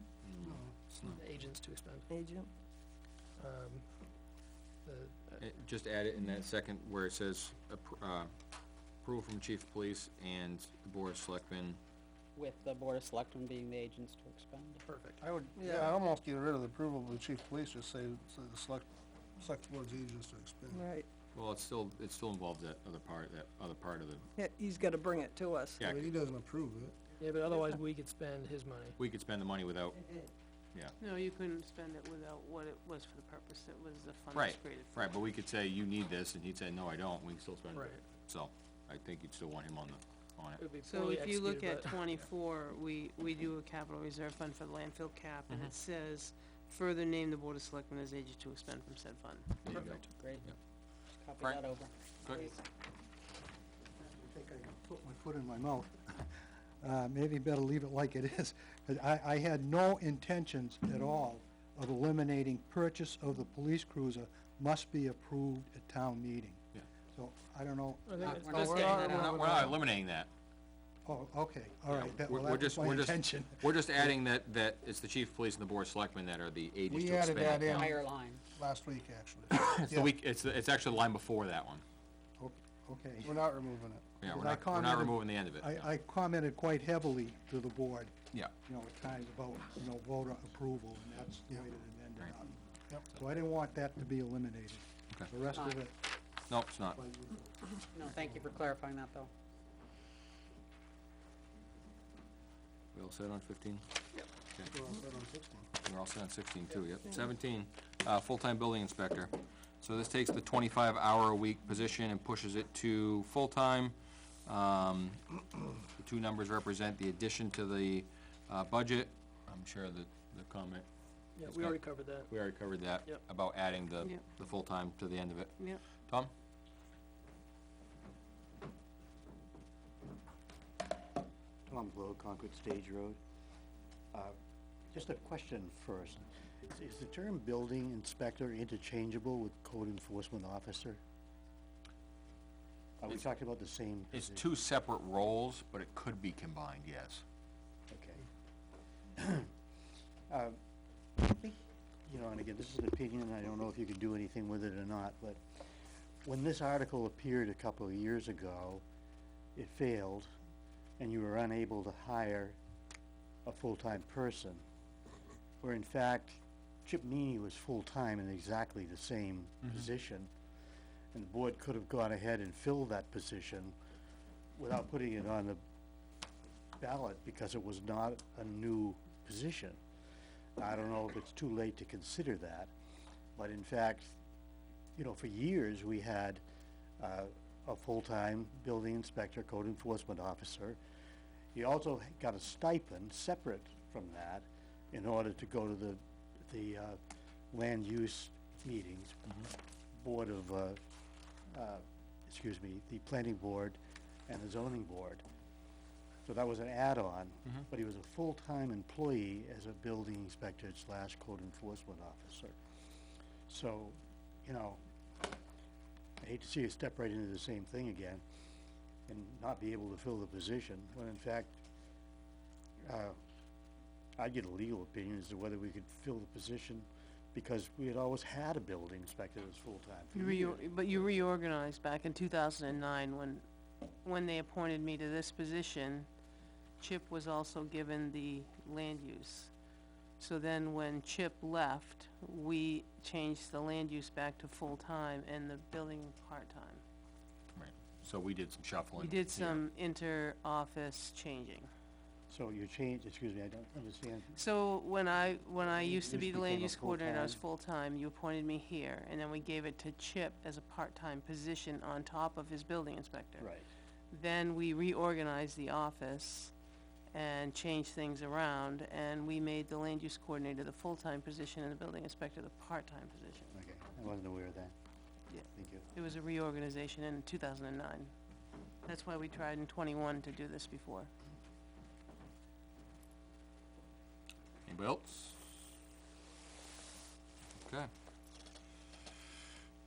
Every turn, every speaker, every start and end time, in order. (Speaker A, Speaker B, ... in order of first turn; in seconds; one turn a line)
Speaker A: 0.2-1.2
Speaker B: 0.4-0.7
Speaker C: 1.1-2.1
Speaker D: 2.1-2.5
Speaker C: 3.4-4.0
Speaker C: 4.8-5.4
Speaker A: 5.4-8.3
Speaker A: 9.0-11.8
Speaker E: 12.3-14.8
Speaker C: 14.9-15.9
Speaker B: 15.3-18.9
Speaker B: 19.4-20.8
Speaker D: 20.7-21.1
Speaker A: 21.3-24.3
Speaker D: 24.4-25.8
Speaker A: 25.8-26.1
Speaker B: 25.8-27.0
Speaker C: 27.2-29.0
Speaker A: 29.0-30.0
Speaker F: 31.0-35.3
Speaker A: 34.3-40.6
Speaker C: 37.7-38.0
Speaker C: 40.6-42.0
Speaker F: 40.8-49.6
Speaker A: 49.6-50.5
Speaker C: 49.7-50.0
Speaker E: 49.7-50.5
Speaker E: 51.1-52.6
Speaker A: 51.4-51.7
Speaker A: 52.2-52.5
Speaker G: 54.0-68.3
Speaker C: 68.0-69.6
Speaker E: 68.2-69.8
Speaker A: 68.5-70.3
Speaker G: 71.0-73.9
Speaker A: 71.9-78.0
Speaker B: 76.9-77.9
Speaker E: 77.7-78.4
Speaker B: 78.5-80.1
Speaker A: 79.5-81.8
Speaker G: 82.4-83.4
Speaker B: 83.2-84.0
Speaker A: 84.2-85.9
Speaker G: 84.3-88.1
Speaker G: 88.6-92.6
Speaker G: 93.1-96.0
Speaker E: 95.5-95.8
Speaker A: 96.5-97.0
Speaker G: 96.9-97.5
Speaker E: 97.9-99.3
Speaker A: 102.9-103.8
Speaker B: 104.7-105.7
Speaker A: 105.8-115.2
Speaker A: 116.0-120.8
Speaker C: 121.4-122.3
Speaker A: 121.4-126.3
Speaker H: 131.7-133.2
Speaker H: 134.9-141.0
Speaker H: 143.0-144.5
Speaker A: 144.1-147.2
Speaker H: 147.9-148.2
Speaker H: 149.2-149.5
Speaker H: 150.3-150.6
Speaker H: 151.2-155.4
Speaker H: 156.2-158.8
Speaker H: 159.5-160.3
Speaker H: 161.0-162.6
Speaker H: 163.4-164.6
Speaker H: 165.6-170.3
Speaker H: 171.1-173.7
Speaker H: 174.6-175.6
Speaker H: 176.8-179.8
Speaker H: 180.6-182.7
Speaker H: 183.3-184.2
Speaker H: 184.9-186.4
Speaker H: 187.0-190.8
Speaker H: 191.5-197.0
Speaker H: 197.5-199.4
Speaker H: 200.0-200.8
Speaker H: 201.5-205.2
Speaker H: 206.2-212.6
Speaker H: 213.5-214.8
Speaker H: 216.2-218.2
Speaker H: 219.1-221.6
Speaker H: 222.8-223.2
Speaker H: 224.2-230.9
Speaker F: 230.1-233.4
Speaker F: 234.0-236.1
Speaker F: 236.8-239.5
Speaker F: 240.2-246.8
Speaker A: 247.5-249.6
Speaker F: 249.0-251.7
Speaker H: 252.3-254.4
Speaker F: 254.3-263.5
Speaker H: 255.6-257.4
Speaker H: 263.4-263.7
Speaker F: 264.1-266.5
Speaker F: 267.1-273.5
Speaker H: 273.5-274.7
Speaker F: 275.3-278.1
Speaker H: 275.5-275.9
Speaker F: 278.8-281.1
Speaker A: 284.6-285.4
Speaker A: 287.6-287.9